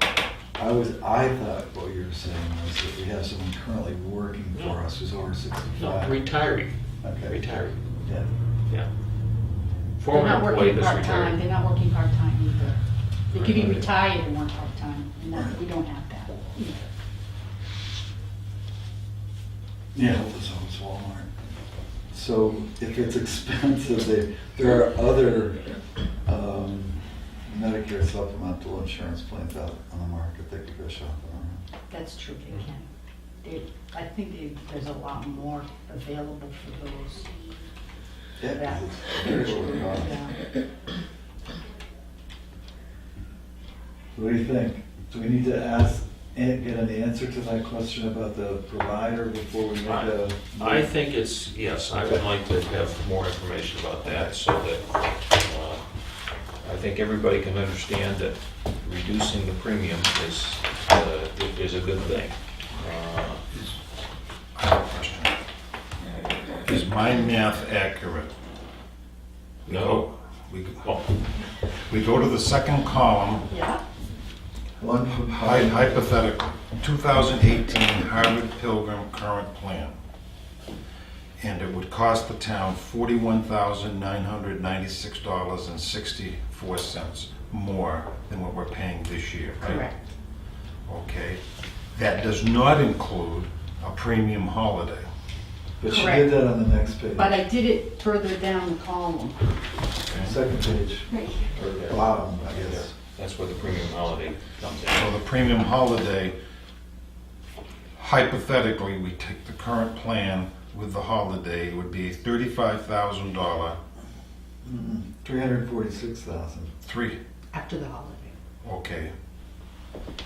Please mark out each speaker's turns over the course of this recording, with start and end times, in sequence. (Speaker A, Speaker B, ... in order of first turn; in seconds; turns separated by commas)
Speaker A: 0.6-6.2, Speaker B: 5.8-7.8, Speaker A: 7.0-7.4, Speaker A: 8.0-8.3, Speaker B: 10.0-11.4, Speaker C: 10.1-16.9, Speaker B: 13.3-14.0, Speaker A: 15.3-15.6, Speaker A: 19.9-21.4, Speaker A: 22.1-25.6, Speaker A: 26.3-31.6, Speaker C: 31.9-32.9, Speaker C: 33.4-37.3, Speaker A: 38.4-40.2, Speaker C: 38.6-40.4, Speaker A: 44.1-50.9, Speaker B: 49.9-55.8, Speaker B: 56.6-63.5, Speaker D: 64.5-65.4, Speaker D: 66.6-68.3, Speaker B: 69.7-70.1, Speaker D: 69.7-70.8, Speaker B: 70.8-71.1, Speaker D: 71.9-73.5, Speaker C: 73.5-73.8, Speaker A: 74.8-76.2, Speaker D: 75.3-80.0, Speaker D: 81.4-89.9, Speaker C: 89.6-90.0, Speaker D: 90.9-91.4, Speaker D: 92.0-95.1, Speaker A: 95.8-97.4, Speaker C: 95.9-96.4, Speaker C: 97.2-99.5, Speaker A: 100.1-102.9, Speaker B: 101.7-105.1, Speaker D: 104.9-106.4, Speaker D: 108.0-113.8, Speaker A: 114.6-116.7, Speaker D: 116.8-117.2, Speaker C: 117.5-118.3, Speaker D: 118.6-119.1